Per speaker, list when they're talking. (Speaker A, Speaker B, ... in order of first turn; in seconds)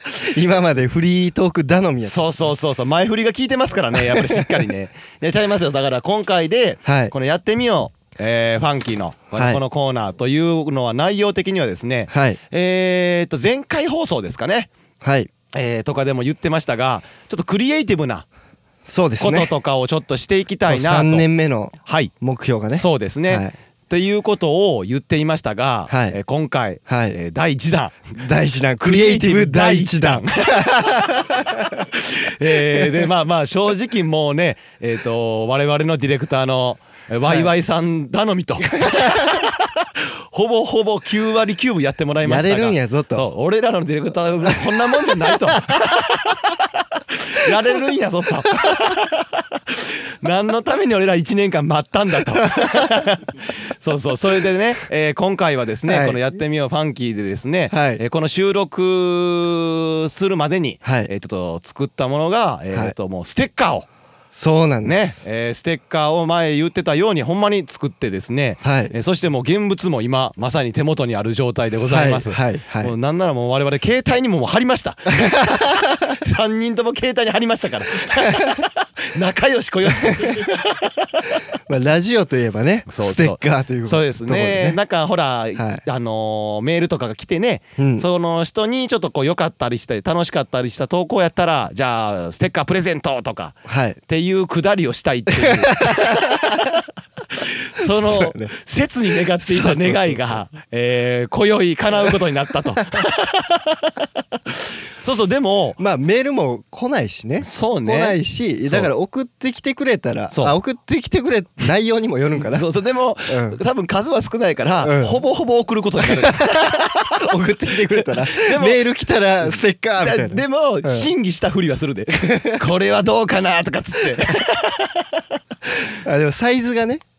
Speaker A: 0.2-2.2, 3.9-4.6, 6.8-7.1, 9.3-9.6, 12.1-12.4, 15.0-15.3, 18.9-19.5, 20.7-23.5, 25.9-26.2, 26.9-27.2, 28.2-31.8, 32.5-33.1, 38.7-39.4, 42.2-43.3, 44.7-45.8, 52.4-52.9, 55.9-56.2, 57.7-58.0, 60.8-61.1, 64.3-65.1, 68.6-68.9, 71.9-72.9, 75.2-76.0, 78.2-78.6, 80.0-80.4, 81.7-84.8, 85.6-85.8, 87.8-88.1, 93.7-94.0, 95.4-96.8, 97.8-98.5, 99.4-100.4, 105.8-112.7, 113.3-113.6, 114.8-115.2, 116.0-121.1, 122.1-122.6, 126.0-127.0
Speaker B: 2.0-14.7, 15.5-18.3, 19.2-21.2, 21.9-22.1, 22.8-28.2, 28.8-63.9, 64.8-81.4, 82.9-96.7, 97.3-105.8, 107.4-108.9, 110.3-110.6, 112.4-118.8, 119.4-125.2